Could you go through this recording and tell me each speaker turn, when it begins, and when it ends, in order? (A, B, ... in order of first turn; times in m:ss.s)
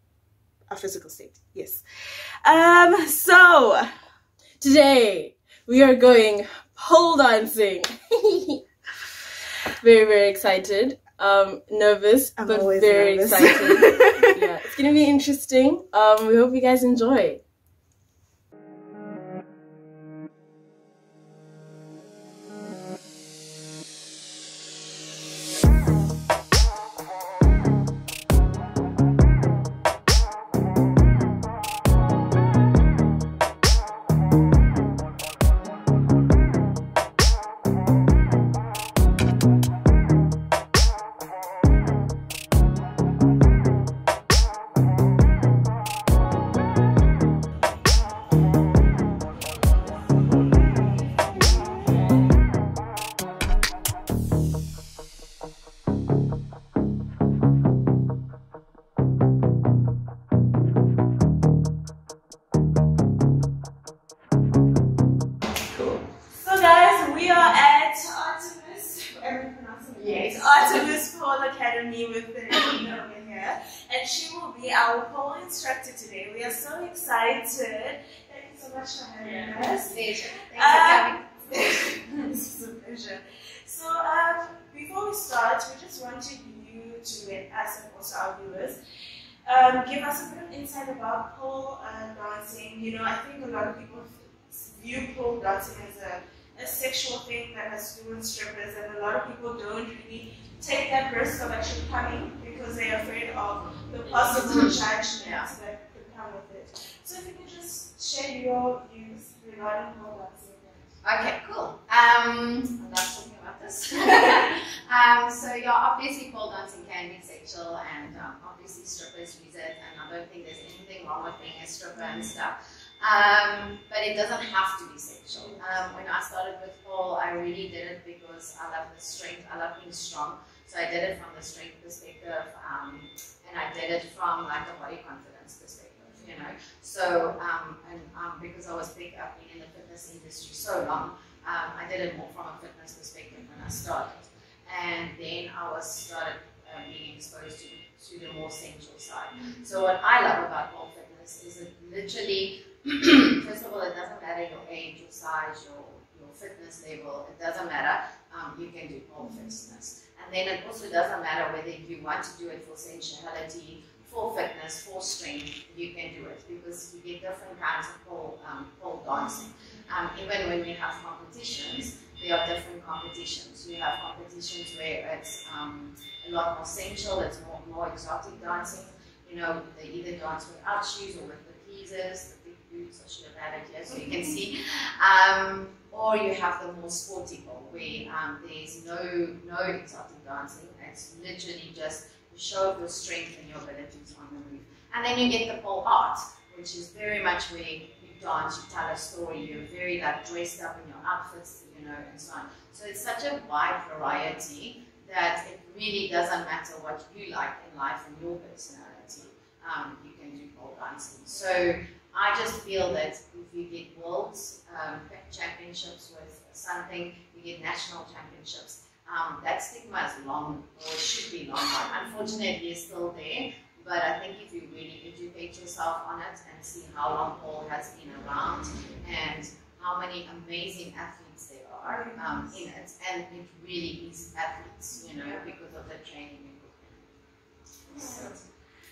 0:00.7-0:01.8 A
0:02.4-0:03.9 A
0:04.6-0:08.6 B
0:09.7-0:17.4 B
0:12.4-0:14.4 A
1:06.3-1:28.8 A
1:10.0-1:10.9 C
1:19.2-1:19.6 B
1:19.5-1:21.8 C
1:29.4-1:50.9 A
1:44.2-1:45.5 C
1:51.0-3:57.1 C
3:51.8-3:52.6 A
3:57.9-3:58.4 A